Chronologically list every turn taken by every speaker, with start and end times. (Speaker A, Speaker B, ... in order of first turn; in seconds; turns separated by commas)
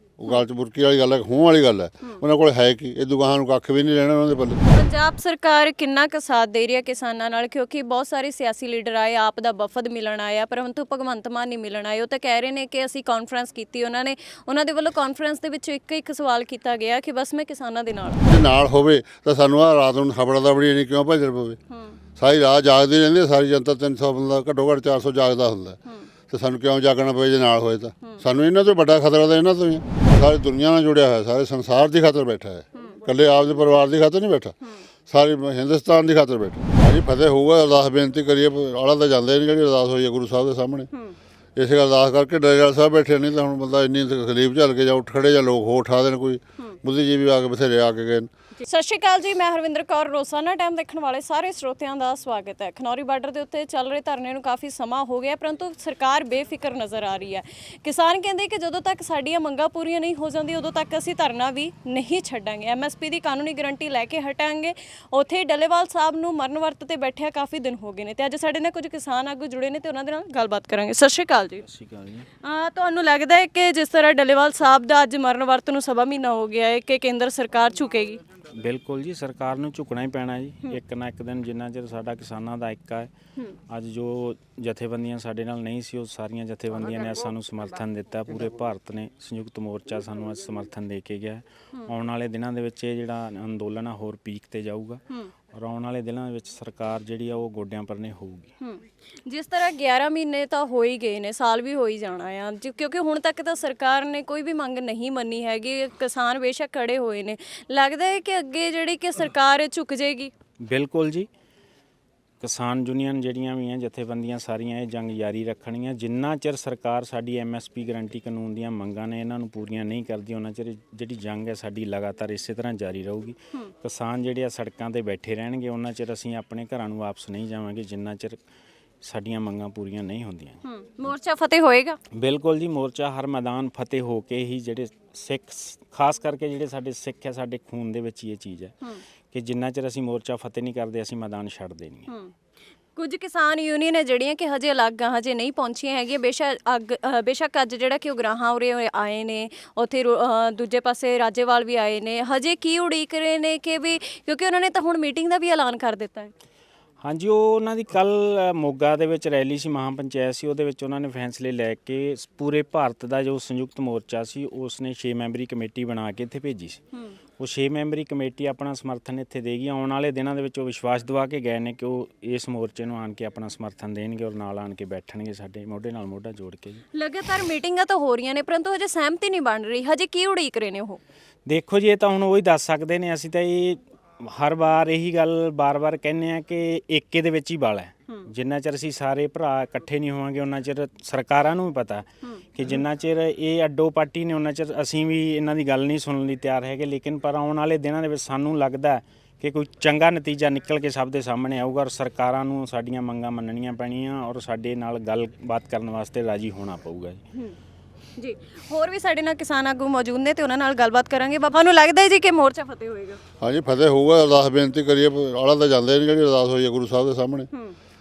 Speaker A: 0.2-4.6, Speaker B: 4.7-18.2, Speaker A: 18.3-21.6, Speaker B: 21.7-22.0, Speaker A: 22.2-25.8, Speaker A: 26.3-34.6, Speaker A: 35.1-40.9, Speaker A: 41.6-48.3, Speaker B: 48.6-71.7, Speaker C: 71.7-72.3, Speaker B: 72.4-78.2, Speaker C: 78.5-83.1, Speaker C: 83.7-98.5, Speaker B: 98.6-110.3, Speaker C: 110.6-111.3, Speaker C: 112.4-128.4, Speaker C: 129.0-130.6, Speaker B: 130.6-132.0, Speaker C: 132.1-138.8, Speaker C: 139.3-142.1, Speaker B: 142.9-156.3, Speaker C: 157.0-166.8, Speaker C: 167.4-176.8, Speaker B: 176.9-181.0, Speaker C: 181.4-207.2, Speaker B: 208.2-213.2, Speaker A: 213.4-217.5